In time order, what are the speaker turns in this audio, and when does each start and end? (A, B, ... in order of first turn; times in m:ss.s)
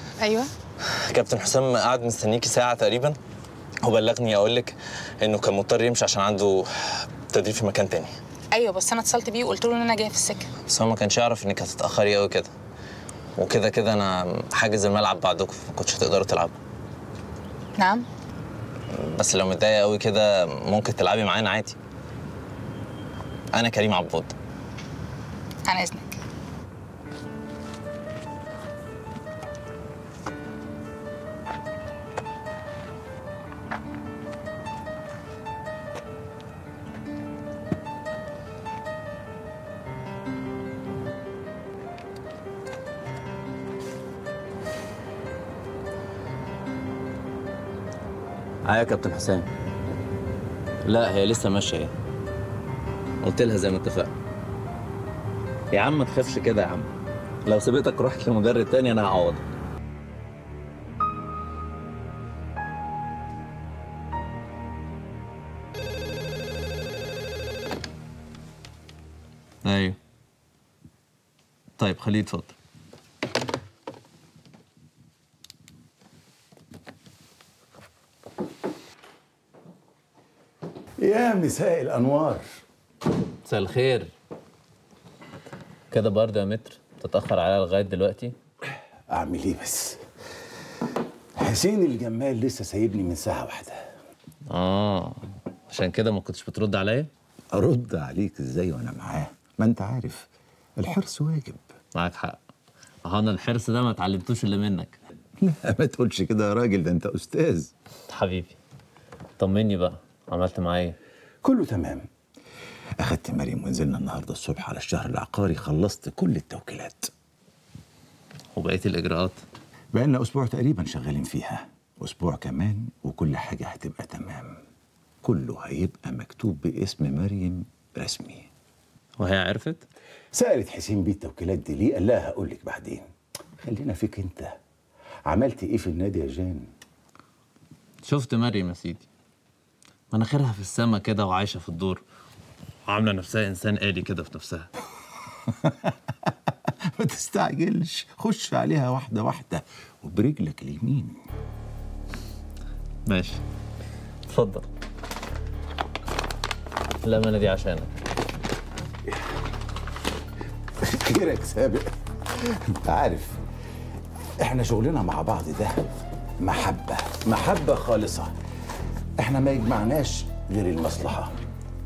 0:00.2-0:00.5 A
0:00.8-0:03.2 B
0:03.8-0:08.2 B
0:08.5-0:10.5 A
0:10.6-0:12.5 B
0:13.4-0:16.6 B
0:17.8-0:18.0 A
0:18.9-0:21.8 B
0:23.5-0:24.3 B
0:25.6-0:26.2 A
0:48.6-0:49.5 B
0:50.8-0:51.9 B
0:53.2-0:54.1 B
0:55.7-0:56.9 B
0:57.4-0:59.4 B
1:09.6-1:10.0 B
1:11.8-1:12.5 B
1:21.0-1:22.4 C
1:23.4-1:24.1 B
1:25.9-1:28.3 B
1:29.1-1:30.0 C
1:31.4-1:33.8 C
1:34.5-1:37.1 B
1:37.5-1:41.6 C
1:41.9-1:42.4 B
1:43.0-1:45.0 B
1:45.4-1:47.7 C
1:48.1-1:48.5 B
1:49.4-1:51.0 B
1:51.4-1:52.0 C
1:53.0-1:57.1 C
1:58.5-1:59.4 B
1:59.9-2:04.6 C
2:05.2-2:08.5 C
2:09.2-2:09.8 B
2:10.3-2:13.1 C
2:13.6-2:14.5 C
2:15.2-2:16.7 C
2:18.0-2:19.1 B
2:20.1-2:22.0 B
2:22.8-2:24.7 B
2:25.5-2:31.2 C
2:33.0-2:33.4 B
2:34.3-2:34.7 B
2:37.0-2:37.9 B
2:40.8-2:43.4 C
2:44.4-2:45.8 C
2:46.4-2:48.3 C
2:49.2-2:51.3 C